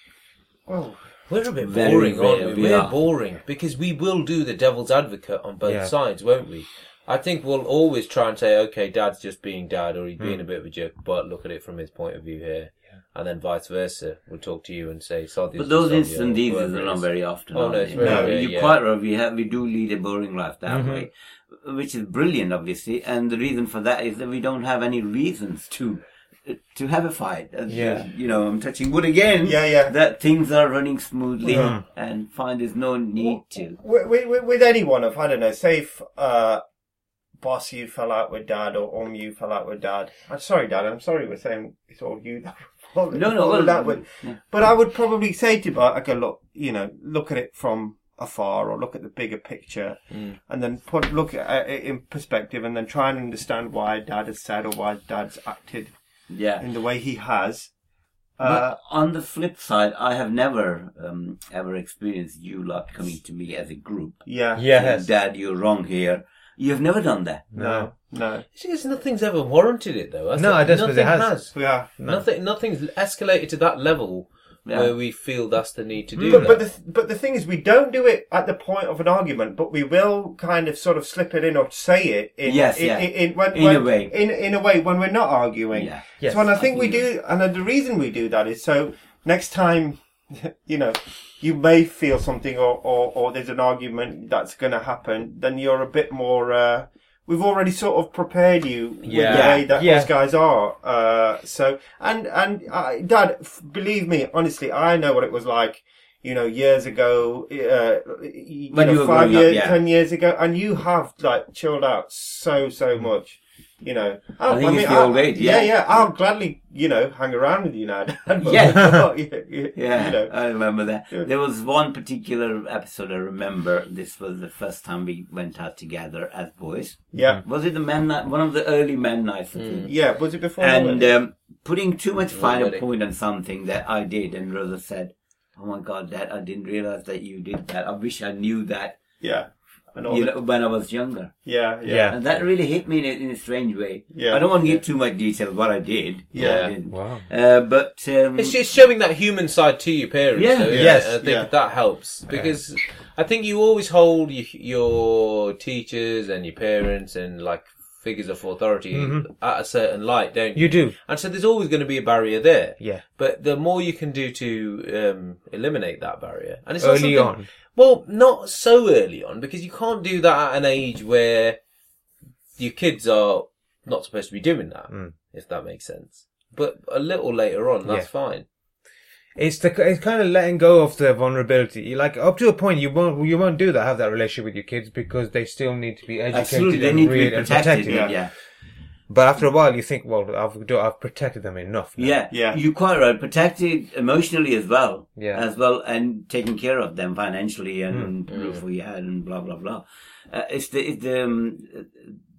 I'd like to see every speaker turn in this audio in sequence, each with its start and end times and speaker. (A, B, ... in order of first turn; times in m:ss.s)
0:00.7-0:01.0 A
0:01.3-0:18.8 B
0:01.6-0:03.0 C
0:05.6-0:05.9 D
0:15.6-0:33.8 C
0:18.0-0:18.3 A
0:18.0-0:18.2 D
0:20.7-0:21.1 D
0:27.7-0:28.1 D
0:29.4-0:29.9 A
0:31.4-0:31.7 A
0:31.5-0:31.8 D
0:33.2-0:36.6 A
0:37.4-0:55.9 A
0:43.1-0:44.4 C
0:50.1-0:50.4 B
0:56.3-0:56.6 C
0:56.6-0:57.7 A
0:58.4-0:58.8 A
0:58.4-1:07.5 C
1:04.3-1:04.7 A
1:04.6-1:05.1 D
1:07.5-1:07.9 D
1:07.6-1:08.4 A
1:08.5-1:16.6 B
1:10.4-1:12.3 D
1:11.6-1:11.9 A
1:14.7-1:14.9 C
1:16.2-2:00.3 A
1:22.5-1:24.1 C
1:25.7-1:27.0 C
1:26.2-1:26.5 D
1:39.0-1:39.5 B
1:39.3-1:39.7 C
1:39.7-1:40.1 D
1:48.7-1:49.8 C
1:54.4-1:56.1 C
1:58.4-1:59.1 C
1:59.8-2:19.0 C
2:07.1-2:07.4 A
2:09.6-2:09.9 B
2:09.9-2:11.1 A
2:12.3-2:12.8 B
2:19.2-2:20.3 A
2:20.1-2:21.5 C
2:21.4-2:22.2 A
2:21.8-2:22.2 D
2:22.1-2:28.6 C
2:24.1-2:24.8 A
2:26.3-2:26.7 A
2:26.4-2:26.7 B
2:26.9-2:27.3 D
2:28.4-2:51.6 B
2:30.4-2:30.9 C
2:30.7-2:31.4 D
2:30.8-2:31.5 A
2:32.3-2:32.6 D
2:38.9-2:39.3 D
2:40.6-2:41.0 D
2:42.8-2:43.0 D
2:46.8-2:47.5 D
2:52.6-2:58.5 B
2:59.4-3:08.3 D
3:06.3-3:08.3 C
3:07.8-3:08.2 A
3:09.1-3:12.2 D
3:12.0-3:22.2 C
3:12.3-3:12.6 A
3:15.2-3:15.4 D
3:18.3-3:18.6 B